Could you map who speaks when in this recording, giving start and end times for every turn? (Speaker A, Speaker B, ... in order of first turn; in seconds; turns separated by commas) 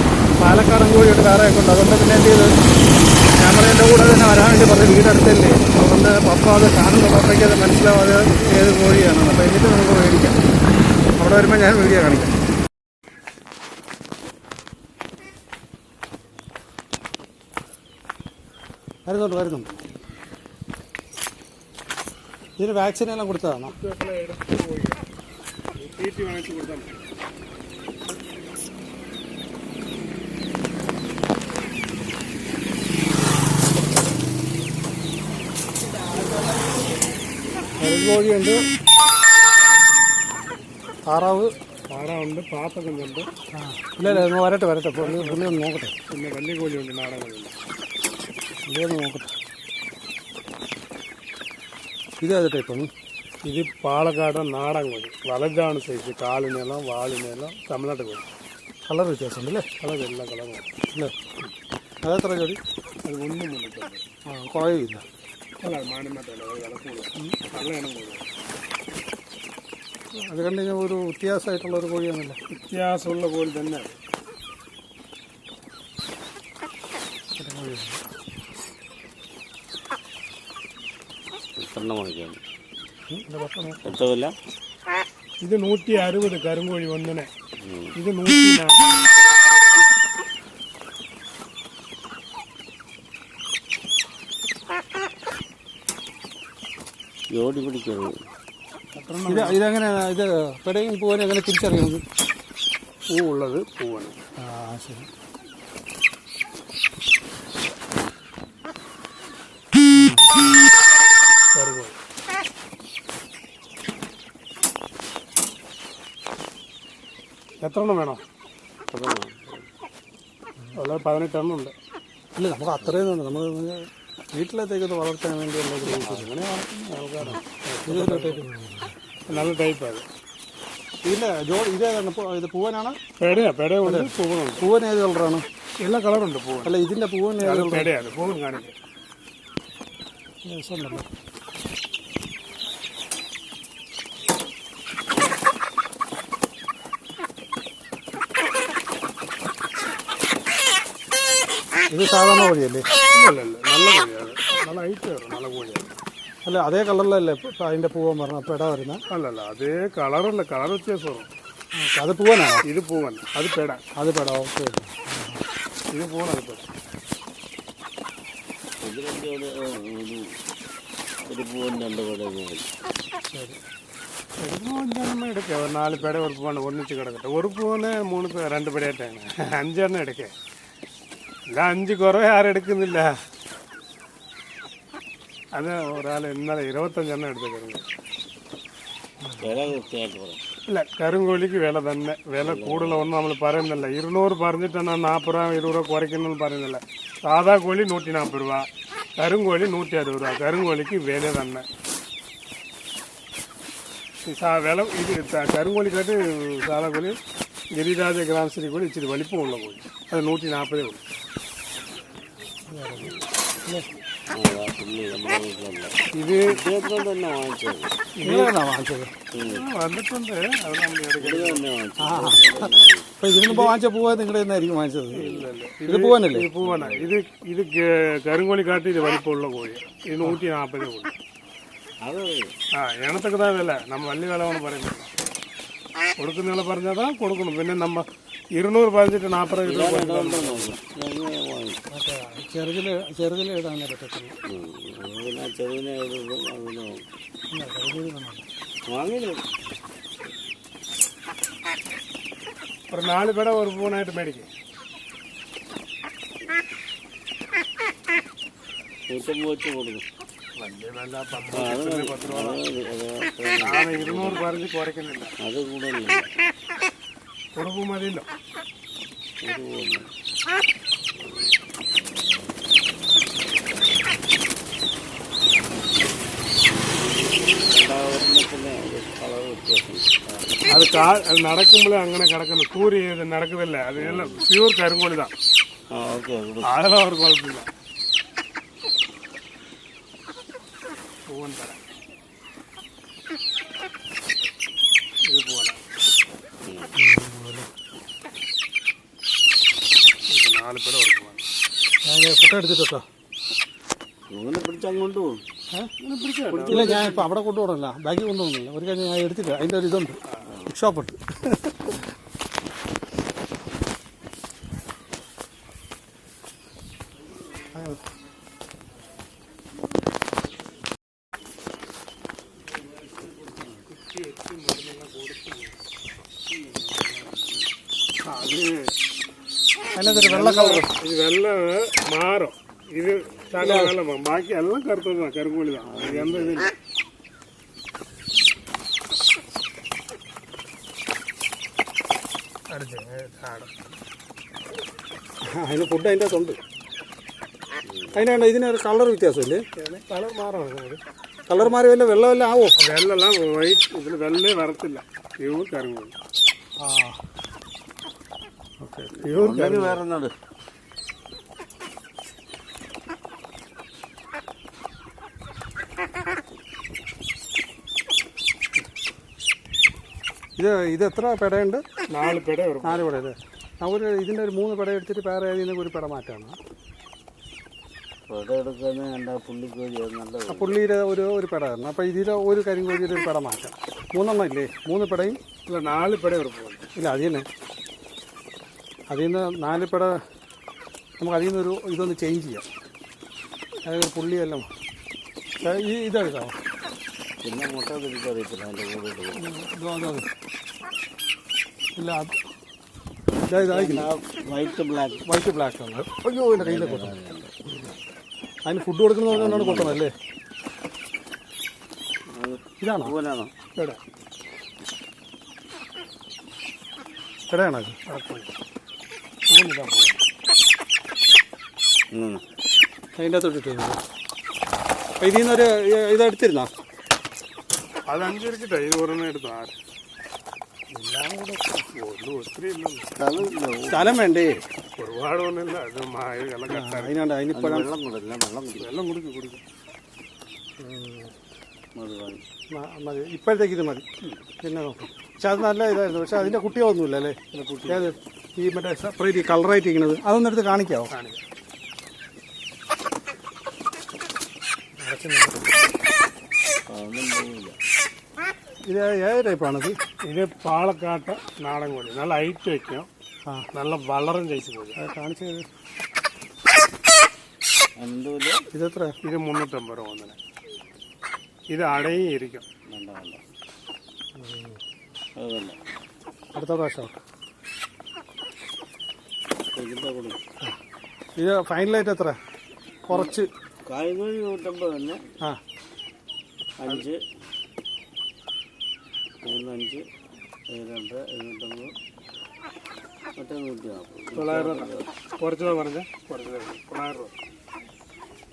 Speaker A: 0.4-2.5, Speaker A: 3.4-10.4, Speaker A: 11.2-12.3, Speaker A: 19.1-19.7, Speaker A: 22.6-23.7, Speaker B: 23.6-25.0, Speaker B: 25.8-26.9, Speaker A: 37.8-38.6, Speaker A: 41.1-41.5, Speaker B: 41.9-43.3, Speaker A: 43.5-45.9, Speaker B: 45.0-45.6, Speaker B: 46.1-47.5, Speaker A: 48.6-49.3, Speaker A: 52.2-52.9, Speaker B: 53.4-58.2, Speaker A: 58.9-59.7, Speaker B: 59.8-60.6, Speaker A: 62.0-62.6, Speaker B: 63.0-64.0, Speaker A: 64.2-65.0, Speaker B: 65.6-68.2, Speaker A: 70.1-72.4, Speaker B: 72.5-74.0, Speaker A: 77.4-78.0, Speaker C: 81.6-82.4, Speaker A: 83.1-83.8, Speaker C: 83.8-84.3, Speaker B: 85.4-87.3, Speaker C: 87.6-87.9, Speaker B: 88.0-88.8, Speaker C: 97.3-98.2, Speaker B: 98.9-99.6, Speaker A: 99.3-102.0, Speaker B: 103.1-104.2, Speaker A: 104.4-105.1, Speaker A: 109.9-110.3, Speaker B: 111.5-112.0, Speaker B: 117.6-118.2, Speaker C: 118.9-119.7, Speaker B: 120.7-121.7, Speaker A: 122.3-126.3, Speaker B: 125.8-128.4, Speaker A: 127.2-128.9, Speaker B: 129.3-130.1, Speaker A: 131.0-133.0, Speaker B: 133.2-134.6, Speaker A: 133.8-135.4, Speaker B: 135.8-136.7, Speaker A: 136.6-137.9, Speaker B: 137.4-138.7, Speaker A: 140.4-141.1, Speaker A: 151.9-152.9, Speaker B: 153.1-155.9, Speaker A: 156.4-159.0, Speaker B: 159.1-161.3, Speaker A: 161.7-162.6, Speaker B: 162.6-163.8, Speaker A: 163.9-165.4, Speaker B: 165.9-166.6, Speaker C: 168.8-170.3, Speaker C: 171.3-172.7, Speaker B: 174.4-180.3, Speaker B: 181.5-183.2, Speaker B: 185.5-187.8, Speaker A: 189.2-189.7, Speaker C: 189.4-190.4, Speaker B: 190.7-201.7, Speaker C: 192.4-193.1, Speaker B: 204.2-207.2, Speaker B: 207.7-211.0, Speaker A: 212.7-213.9, Speaker C: 214.3-215.9, Speaker B: 216.1-216.5, Speaker C: 216.4-217.9, Speaker B: 218.2-218.5, Speaker A: 218.2-219.1, Speaker C: 219.3-219.6, Speaker B: 219.4-221.6, Speaker C: 221.2-223.1, Speaker A: 222.0-225.2, Speaker B: 223.4-223.8, Speaker B: 225.1-231.1, Speaker C: 225.2-225.5, Speaker A: 225.8-226.5, Speaker C: 226.6-227.1, Speaker C: 232.0-232.5, Speaker B: 232.7-235.1, Speaker B: 236.2-240.7, Speaker C: 239.6-241.8, Speaker A: 241.9-244.3, Speaker C: 244.5-247.0, Speaker A: 247.5-248.4, Speaker C: 248.9-249.4, Speaker B: 252.9-254.5, Speaker C: 259.1-260.0, Speaker B: 260.6-262.6, Speaker C: 261.5-264.5, Speaker B: 263.6-265.3, Speaker C: 265.4-266.3, Speaker B: 267.6-268.3, Speaker C: 269.4-270.1, Speaker C: 277.6-280.8, Speaker B: 280.7-285.3, Speaker C: 284.0-284.4, Speaker C: 285.9-286.7, Speaker B: 286.7-287.7, Speaker B: 291.3-291.8, Speaker B: 295.2-295.8, Speaker A: 296.9-297.7, Speaker B: 300.3-301.4, Speaker A: 302.1-303.0, Speaker C: 304.3-305.4, Speaker B: 306.0-307.2, Speaker C: 306.4-307.2, Speaker A: 306.6-310.2, Speaker A: 310.7-312.0, Speaker A: 317.7-318.0, Speaker C: 323.2-323.7, Speaker B: 323.9-325.8, Speaker C: 326.5-327.6, Speaker B: 328.2-328.9, Speaker A: 329.9-330.9, Speaker B: 330.0-336.7, Speaker A: 333.6-334.0, Speaker C: 335.8-336.6, Speaker B: 342.7-343.7, Speaker A: 345.5-346.6, Speaker C: 347.9-348.2, Speaker A: 348.1-349.7, Speaker B: 349.8-351.0, Speaker A: 351.5-352.8, Speaker B: 352.8-356.1, Speaker A: 356.8-357.2, Speaker A: 358.8-360.0, Speaker C: 359.2-360.3, Speaker A: 370.6-371.8, Speaker B: 372.1-373.0, Speaker A: 372.8-376.6, Speaker C: 378.3-380.8, Speaker A: 380.5-385.4, Speaker B: 385.7-386.8, Speaker A: 386.9-387.4, Speaker A: 389.1-390.2, Speaker A: 391.2-392.6, Speaker A: 393.9-394.7, Speaker A: 395.6-396.6, Speaker C: 397.4-399.5, Speaker A: 399.4-400.3, Speaker A: 401.9-402.4, Speaker A: 403.4-404.1, Speaker C: 403.6-405.2, Speaker A: 405.2-407.2, Speaker C: 406.6-407.5, Speaker A: 408.6-410.1, Speaker C: 409.3-410.0, Speaker C: 412.3-413.5, Speaker A: 412.8-413.1, Speaker A: 417.5-418.0, Speaker B: 418.1-418.5, Speaker B: 419.5-420.2, Speaker C: 422.1-422.4, Speaker A: 423.1-424.0, Speaker A: 425.2-426.7, Speaker B: 428.1-429.7, Speaker A: 430.9-431.9, Speaker B: 431.9-433.1, Speaker C: 433.1-434.2, Speaker A: 433.9-434.6, Speaker B: 435.0-437.1, Speaker A: 436.7-437.9, Speaker C: 437.5-438.9, Speaker B: 438.8-439.6, Speaker A: 440.8-441.3, Speaker C: 442.0-442.4, Speaker A: 442.7-444.0, Speaker A: 444.6-451.1, Speaker B: 447.5-448.1, Speaker B: 451.1-451.4, Speaker A: 455.0-455.6, Speaker C: 456.9-457.8, Speaker A: 458.9-460.0, Speaker B: 460.2-463.1, Speaker B: 463.7-465.0, Speaker A: 464.9-465.7, Speaker C: 468.0-468.6, Speaker A: 468.7-469.1, Speaker B: 469.2-470.4, Speaker B: 471.7-472.6, Speaker C: 472.9-473.4, Speaker A: 474.4-474.8, Speaker C: 475.4-475.8, Speaker A: 476.5-477.1, Speaker C: 479.7-480.4, Speaker A: 481.4-482.4, Speaker A: 483.1-483.5, Speaker C: 483.9-485.2, Speaker C: 486.8-487.2, Speaker C: 489.4-490.0, Speaker C: 490.7-491.9, Speaker C: 493.4-495.1, Speaker B: 494.3-497.3